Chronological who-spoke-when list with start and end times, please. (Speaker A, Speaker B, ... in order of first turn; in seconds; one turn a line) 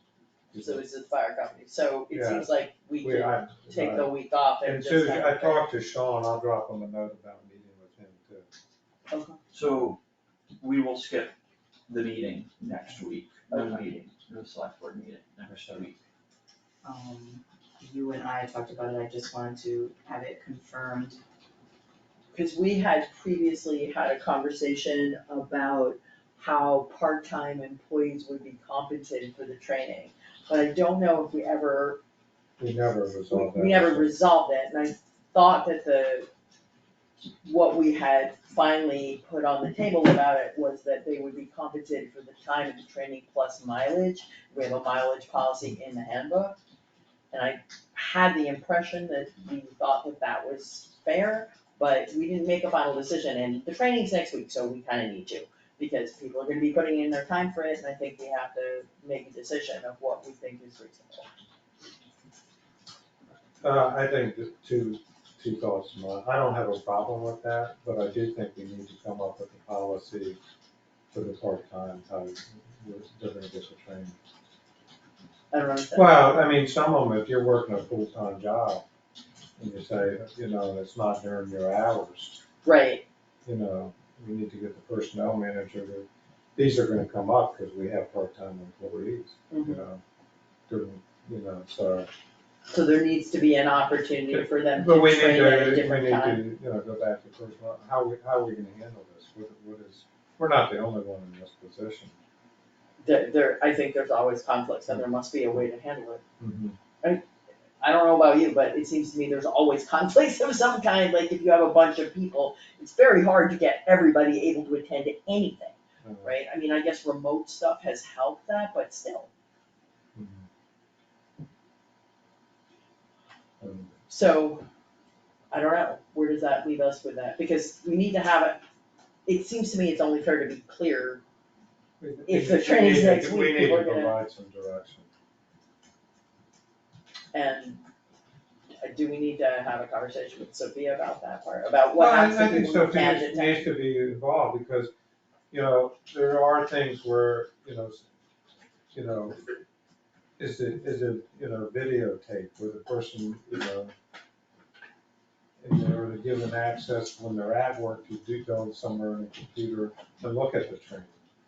Speaker A: 0.5-0.8
Speaker B: 0.6-5.6
Speaker A: 2.1-8.5
Speaker B: 9.1-9.4
Speaker C: 9.5-10.0
Speaker C: 10.6-11.3
Speaker C: 11.9-16.0
Speaker B: 13.5-13.9
Speaker D: 16.8-21.2
Speaker B: 22.3-32.0
Speaker A: 32.6-34.1
Speaker B: 33.3-36.3
Speaker B: 37.4-46.5
Speaker B: 47.3-61.3
Speaker A: 63.6-70.4
Speaker A: 71.1-74.2
Speaker B: 75.5-76.3
Speaker A: 75.9-78.8
Speaker A: 79.6-82.4
Speaker B: 82.6-83.0
Speaker A: 83.5-90.0
Speaker B: 89.5-89.8
Speaker A: 90.7-92.1
Speaker B: 92.7-96.4
Speaker A: 94.3-102.2
Speaker B: 103.0-106.2
Speaker A: 106.4-106.8
Speaker B: 107.8-119.3
Speaker A: 116.0-116.3
Speaker A: 120.2-120.5
Speaker A: 123.6-123.9
Speaker B: 124.1-124.7
Speaker B: 125.5-128.6
Speaker B: 129.3-131.2
Speaker A: 132.0-135.1
Speaker B: 132.3-134.2
Speaker B: 137.3-137.8
Speaker B: 138.8-143.7
Speaker A: 142.0-144.9
Speaker A: 145.5-148.0
Speaker A: 148.9-149.4
Speaker A: 150.4-153.9
Speaker A: 155.6-161.2